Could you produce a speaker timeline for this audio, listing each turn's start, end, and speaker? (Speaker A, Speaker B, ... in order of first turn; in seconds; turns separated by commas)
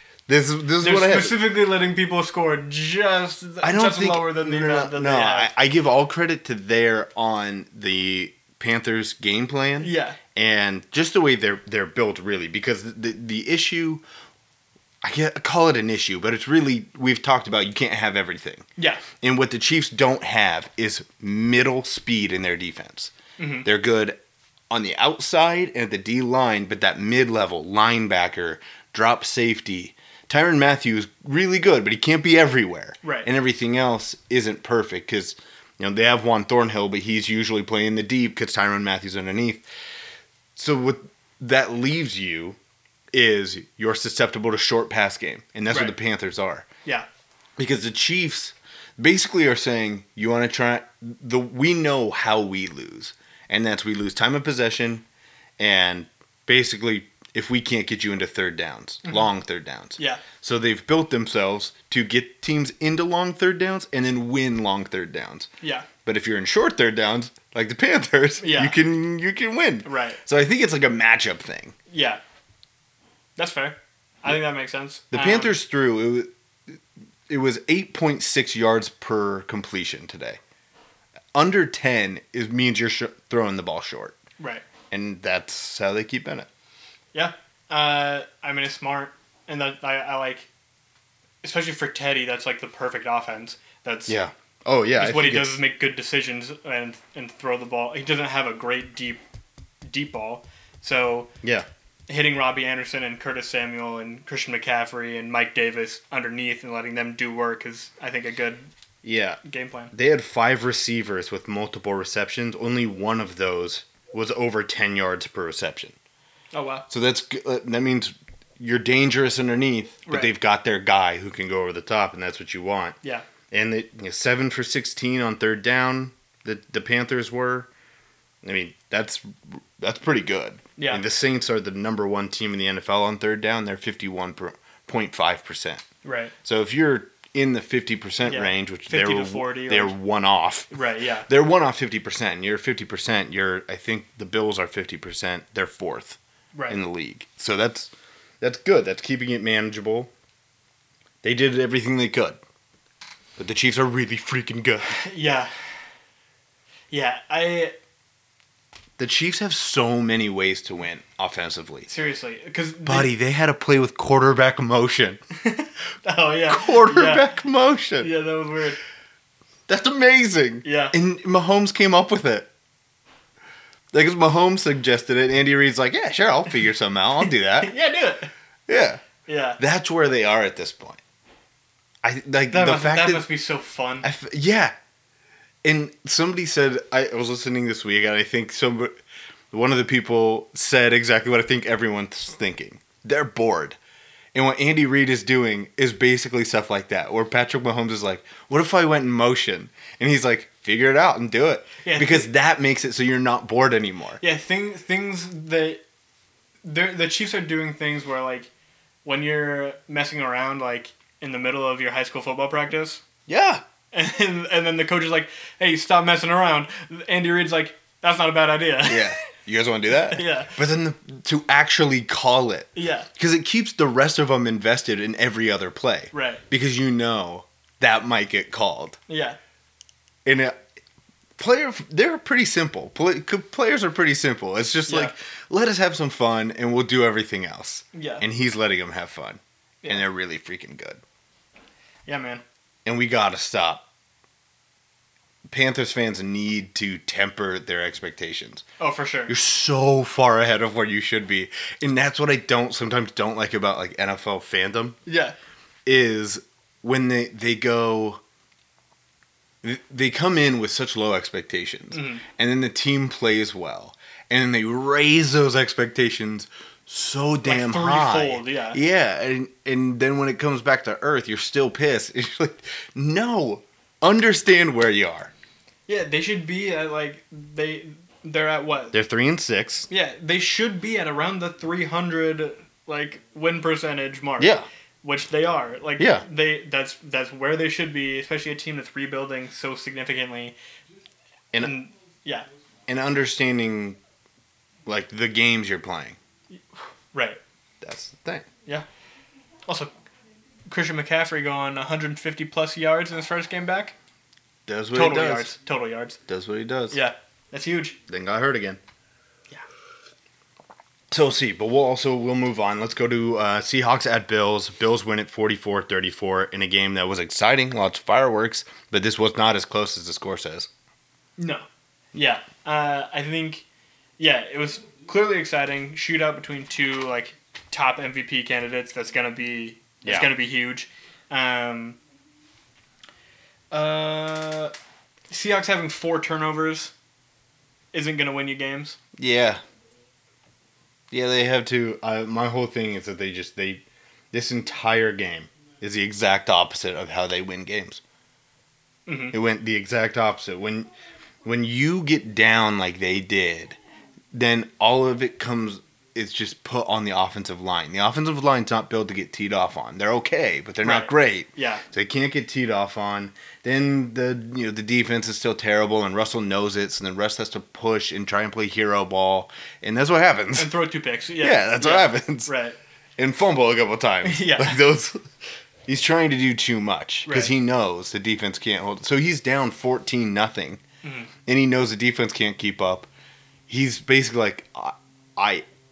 Speaker A: 0.3-1.4, Speaker B: 0.8-5.5, Speaker A: 3.6-14.0, Speaker B: 9.8-10.2, Speaker A: 15.0-18.7, Speaker B: 18.8-19.0, Speaker A: 19.2-23.1, Speaker B: 23.4-23.7, Speaker A: 23.6-24.2, Speaker A: 24.7-39.6, Speaker B: 33.0-33.3, Speaker A: 40.6-42.6, Speaker A: 43.1-46.7, Speaker B: 45.7-46.0, Speaker A: 47.6-55.0, Speaker A: 55.6-65.5, Speaker B: 60.0-60.2, Speaker B: 65.6-65.9, Speaker A: 66.0-71.8, Speaker B: 68.4-68.8, Speaker B: 69.8-70.2, Speaker B: 71.9-72.2, Speaker B: 73.4-75.5, Speaker A: 75.1-80.4, Speaker A: 81.3-84.2, Speaker B: 84.4-84.6, Speaker A: 84.9-86.5, Speaker B: 87.1-90.5, Speaker B: 91.4-94.2, Speaker A: 94.1-95.6, Speaker B: 95.0-99.2, Speaker B: 99.8-101.3, Speaker B: 102.1-108.7, Speaker A: 109.0-109.4, Speaker B: 109.4-109.9, Speaker A: 109.9-116.0, Speaker B: 116.5-116.8, Speaker A: 116.9-123.0, Speaker B: 120.1-120.3, Speaker A: 123.5-127.7, Speaker A: 128.4-135.8, Speaker B: 130.8-131.0, Speaker B: 136.0-136.3, Speaker A: 136.4-146.2, Speaker B: 138.2-140.0, Speaker B: 140.7-141.3, Speaker B: 146.5-146.8, Speaker A: 146.7-150.1, Speaker A: 151.2-152.4, Speaker A: 153.4-154.9, Speaker B: 154.9-155.5, Speaker B: 156.9-157.8, Speaker A: 159.0-161.9, Speaker B: 161.9-163.1, Speaker A: 162.8-165.2, Speaker B: 165.4-167.2, Speaker A: 166.5-168.1, Speaker B: 168.0-168.8, Speaker A: 169.7-172.5, Speaker B: 170.6-170.9, Speaker A: 173.9-177.7, Speaker B: 177.3-178.3, Speaker A: 178.7-179.0, Speaker B: 179.3-179.6, Speaker A: 179.6-181.0, Speaker A: 182.0-183.3, Speaker B: 182.5-184.1, Speaker A: 184.0-184.8, Speaker A: 185.6-189.0, Speaker A: 189.5-193.8, Speaker A: 194.3-204.2, Speaker B: 201.8-202.3, Speaker B: 204.2-205.8, Speaker B: 206.7-208.5, Speaker B: 209.1-213.0, Speaker A: 213.3-213.6, Speaker B: 213.9-219.1, Speaker A: 218.9-229.0, Speaker B: 220.1-220.6, Speaker B: 222.8-223.1, Speaker B: 226.1-226.4, Speaker B: 229.1-229.4, Speaker A: 230.2-230.6, Speaker A: 231.4-241.0, Speaker B: 234.9-235.1, Speaker B: 237.9-238.2, Speaker B: 242.1-242.4, Speaker A: 242.8-243.8, Speaker A: 245.5-248.7, Speaker B: 248.8-249.3, Speaker A: 249.3-255.0, Speaker B: 255.1-255.3, Speaker A: 255.9-258.2, Speaker A: 259.6-275.3, Speaker B: 261.9-262.2, Speaker B: 267.4-268.8, Speaker B: 275.9-279.0, Speaker A: 278.9-279.9, Speaker B: 279.9-290.6, Speaker A: 284.4-284.7, Speaker A: 286.0-286.2, Speaker B: 291.6-292.5, Speaker A: 292.9-294.0, Speaker A: 294.9-296.2, Speaker B: 297.1-297.4, Speaker A: 297.8-298.5, Speaker B: 300.7-303.9, Speaker A: 304.7-305.5, Speaker B: 304.9-306.2, Speaker A: 306.3-307.0, Speaker B: 306.9-308.0, Speaker A: 308.1-308.8, Speaker A: 311.1-320.7, Speaker B: 321.4-323.6, Speaker B: 324.2-332.0, Speaker A: 330.0-330.3, Speaker B: 333.7-334.7, Speaker B: 335.3-336.9, Speaker B: 337.9-339.0, Speaker A: 339.2-339.6, Speaker A: 341.1-348.0, Speaker B: 349.1-349.4, Speaker A: 349.3-350.9, Speaker A: 351.4-353.8, Speaker A: 354.3-370.7, Speaker B: 360.8-361.8, Speaker B: 370.6-372.8, Speaker A: 371.4-372.5, Speaker A: 373.2-375.2, Speaker B: 374.2-374.8, Speaker A: 375.9-380.8, Speaker B: 377.3-377.5, Speaker B: 381.0-381.3, Speaker A: 381.5-383.1, Speaker A: 383.7-385.6